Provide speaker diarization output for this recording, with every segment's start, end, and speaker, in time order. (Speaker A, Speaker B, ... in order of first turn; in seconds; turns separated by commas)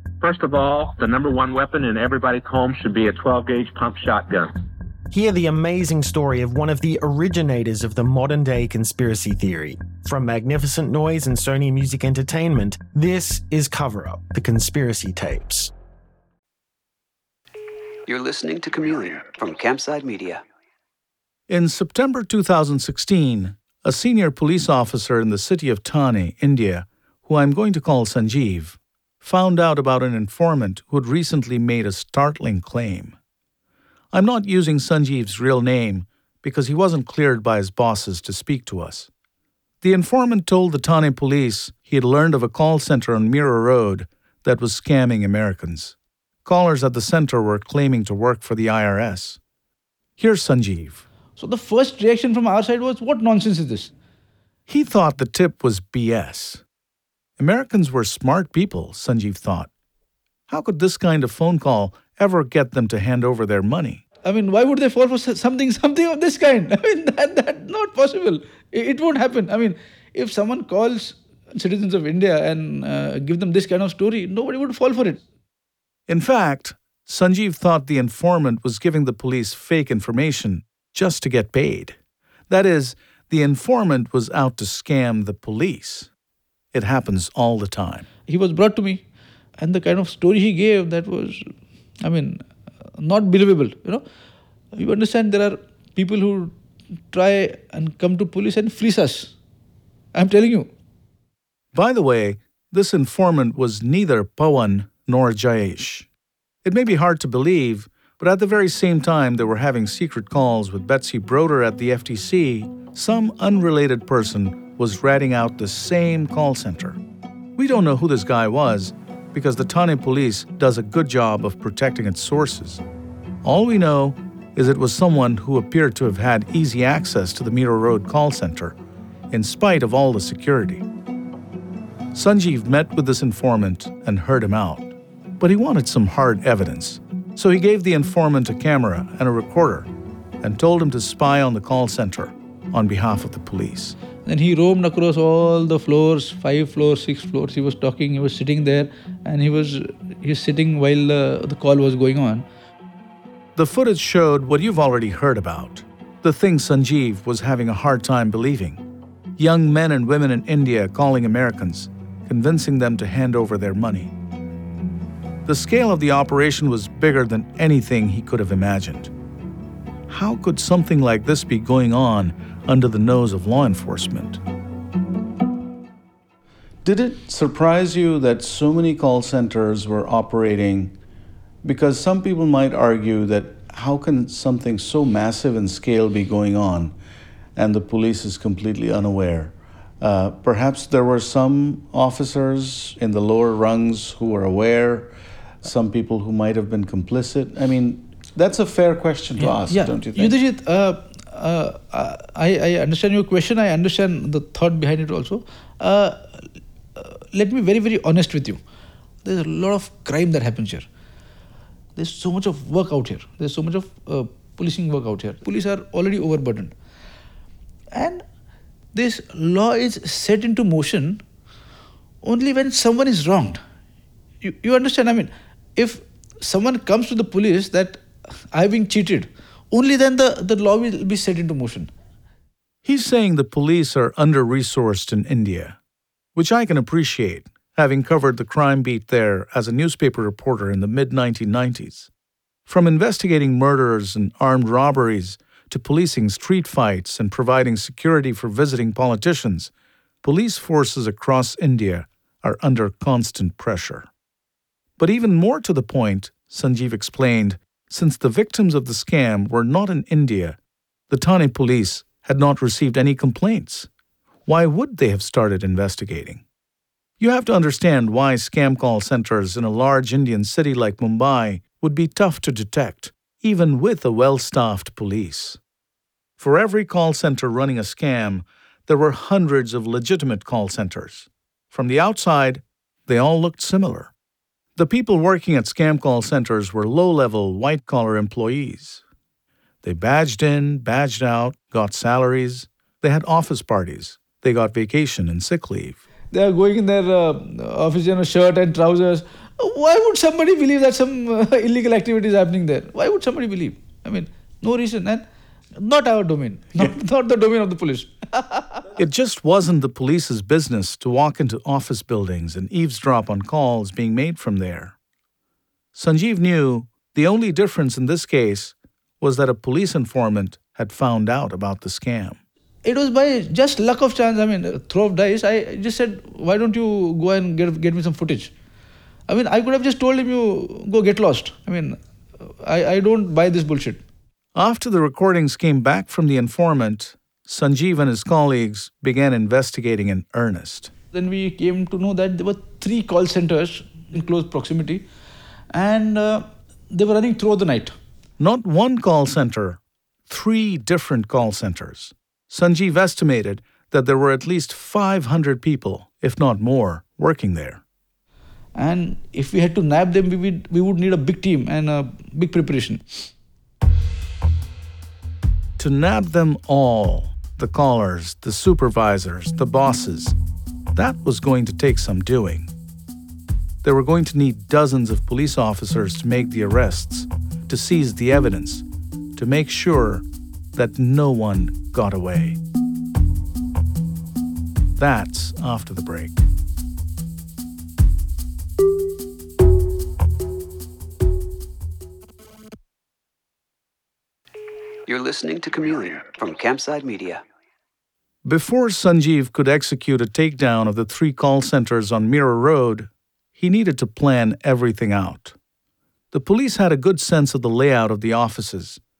Speaker A: 0.2-4.5, Speaker B: 5.1-15.7, Speaker C: 18.1-20.4, Speaker D: 21.5-33.2, Speaker D: 34.1-39.1, Speaker D: 39.8-49.4, Speaker D: 50.2-51.0, Speaker E: 51.4-53.9, Speaker D: 54.7-56.6, Speaker D: 57.4-59.7, Speaker D: 60.5-64.0, Speaker E: 64.2-75.2, Speaker D: 76.1-82.0, Speaker D: 82.5-86.1, Speaker D: 86.7-88.1, Speaker E: 88.2-89.0, Speaker E: 89.6-91.5, Speaker E: 92.0-92.4, Speaker E: 93.0-94.0, Speaker E: 94.7-96.5, Speaker E: 97.1-99.3, Speaker E: 100.1-100.7, Speaker D: 101.7-106.1, Speaker D: 106.6-117.0, Speaker D: 117.5-122.8, Speaker D: 123.4-128.8, Speaker D: 129.3-130.8, Speaker D: 132.1-139.9, Speaker D: 140.4-143.9, Speaker E: 144.2-152.4, Speaker D: 153.5-158.8, Speaker D: 159.4-164.1, Speaker D: 165.4-169.1, Speaker D: 170.1-174.4, Speaker D: 176.8-180.9, Speaker D: 181.6-186.9, Speaker D: 187.5-200.3, Speaker E: 199.4-208.6, Speaker E: 209.2-210.8, Speaker E: 211.9-216.7, Speaker E: 217.9-218.2, Speaker E: 218.9-221.2, Speaker E: 222.2-223.6, Speaker E: 224.4-231.9, Speaker D: 232.8-235.8, Speaker D: 236.3-242.1, Speaker D: 242.7-249.7, Speaker D: 250.2-254.1, Speaker D: 255.0-260.6, Speaker D: 261.1-263.9, Speaker D: 264.4-266.4, Speaker D: 267.2-275.6, Speaker D: 276.4-284.1, Speaker D: 284.8-289.0, Speaker D: 289.8-296.0, Speaker E: 296.3-305.2, Speaker E: 305.8-308.8, Speaker D: 308.9-314.9, Speaker D: 315.9-322.4, Speaker E: 322.8-328.5, Speaker E: 329.3-334.0, Speaker D: 334.5-340.9, Speaker E: 341.1-345.1, Speaker E: 345.7-347.9, Speaker D: 348.4-357.8, Speaker E: 358.7-363.2, Speaker D: 365.8-370.4, Speaker D: 370.9-372.7, Speaker D: 373.8-378.8, Speaker D: 379.4-382.6, Speaker D: 385.0-386.4, Speaker C: 395.1-397.4, Speaker D: 398.4-405.6, Speaker D: 406.3-409.0